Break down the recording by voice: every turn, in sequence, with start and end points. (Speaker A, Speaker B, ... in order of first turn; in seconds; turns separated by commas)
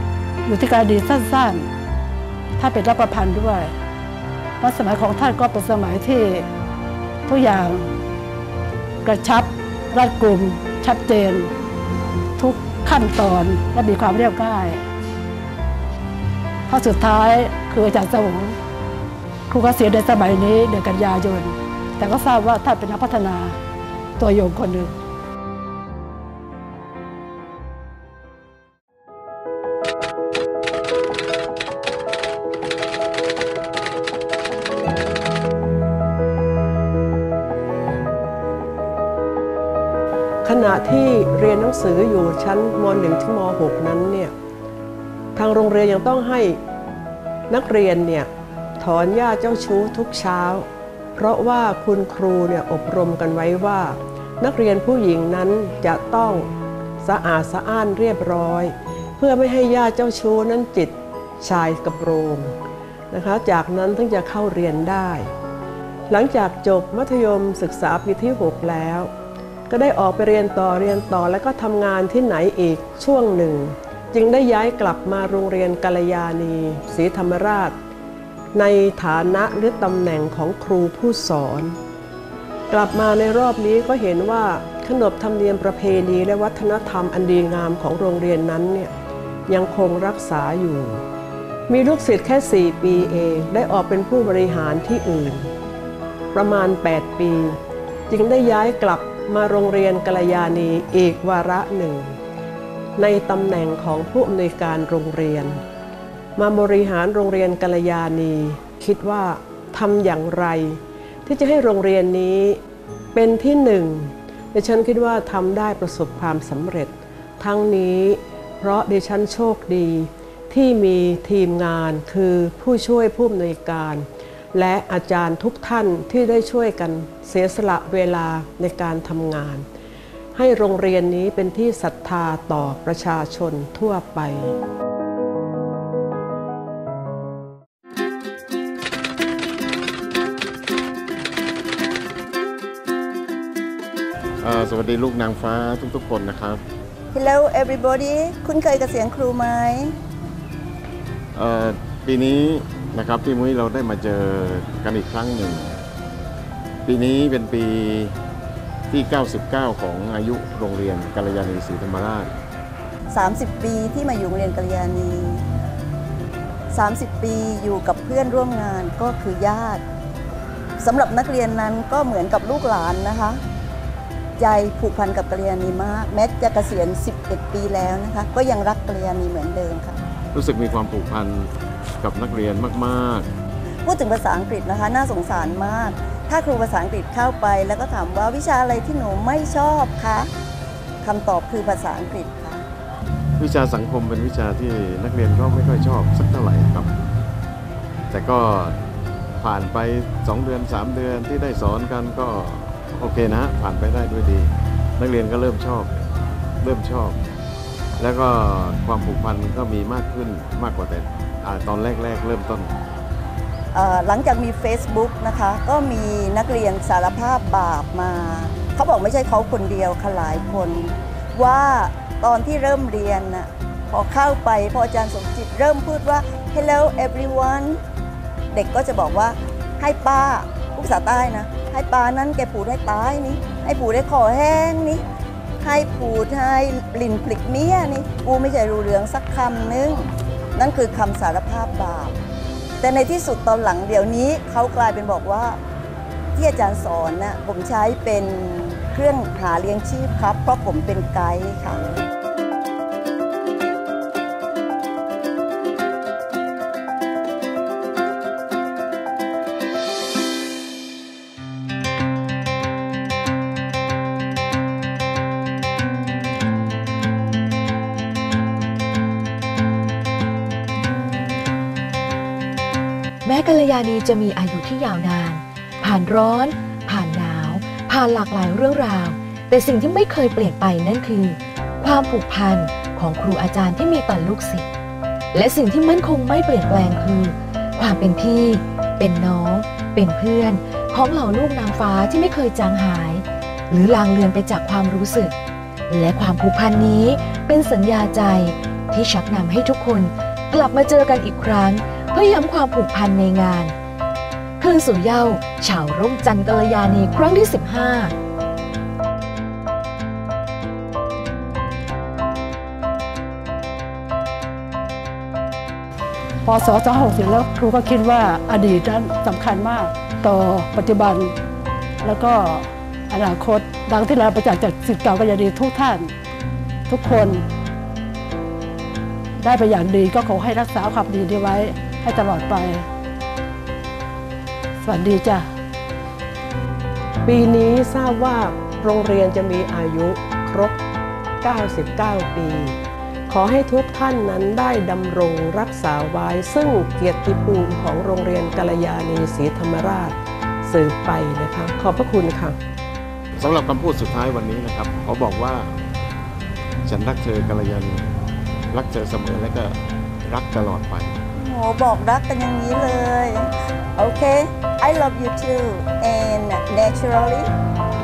Speaker A: 0.5-1.7, Speaker A: 2.6-3.7, Speaker A: 4.6-6.5, Speaker A: 7.3-7.9, Speaker A: 9.0-11.5, Speaker A: 12.4-14.8, Speaker A: 16.7-18.6, Speaker A: 19.5-23.6, Speaker A: 24.2-24.9, Speaker B: 40.4-44.3, Speaker B: 45.4-46.6, Speaker B: 47.5-56.5, Speaker B: 57.0-62.5, Speaker B: 63.1-65.3, Speaker B: 66.1-69.1, Speaker B: 69.7-77.8, Speaker B: 78.5-81.8, Speaker B: 82.7-88.9, Speaker B: 89.5-91.0, Speaker B: 91.7-95.5, Speaker B: 96.3-102.2, Speaker B: 103.0-105.6, Speaker B: 106.4-112.6, Speaker B: 113.1-129.7, Speaker B: 130.3-134.6, Speaker C: 144.4-146.6, Speaker D: 147.1-150.0, Speaker C: 151.3-155.8, Speaker C: 156.9-158.2, Speaker C: 158.9-162.3, Speaker D: 163.1-165.4, Speaker D: 166.7-169.8, Speaker D: 170.8-173.4, Speaker D: 174.4-180.0, Speaker C: 180.3-183.3, Speaker D: 183.8-190.3, Speaker D: 191.0-192.6, Speaker C: 193.4-196.9, Speaker C: 198.1-198.8, Speaker C: 199.4-206.1, Speaker C: 206.6-207.2, Speaker C: 208.0-212.7, Speaker D: 213.8-227.8, Speaker D: 228.5-235.0, Speaker D: 235.6-242.2, Speaker D: 242.8-245.6, Speaker D: 246.4-251.9, Speaker E: 273.2-284.7, Speaker E: 285.3-295.3, Speaker E: 295.9-303.7, Speaker E: 304.6-308.1, Speaker A: 316.4-321.3, Speaker A: 322.0-326.1, Speaker A: 326.9-327.4, Speaker A: 329.4-332.9, Speaker A: 334.8-335.5, Speaker B: 337.2-340.8, Speaker B: 341.4-342.8, Speaker B: 343.3-352.6, Speaker C: 353.4-355.7, Speaker C: 356.9-358.1, Speaker C: 358.7-361.2, Speaker D: 361.4-367.5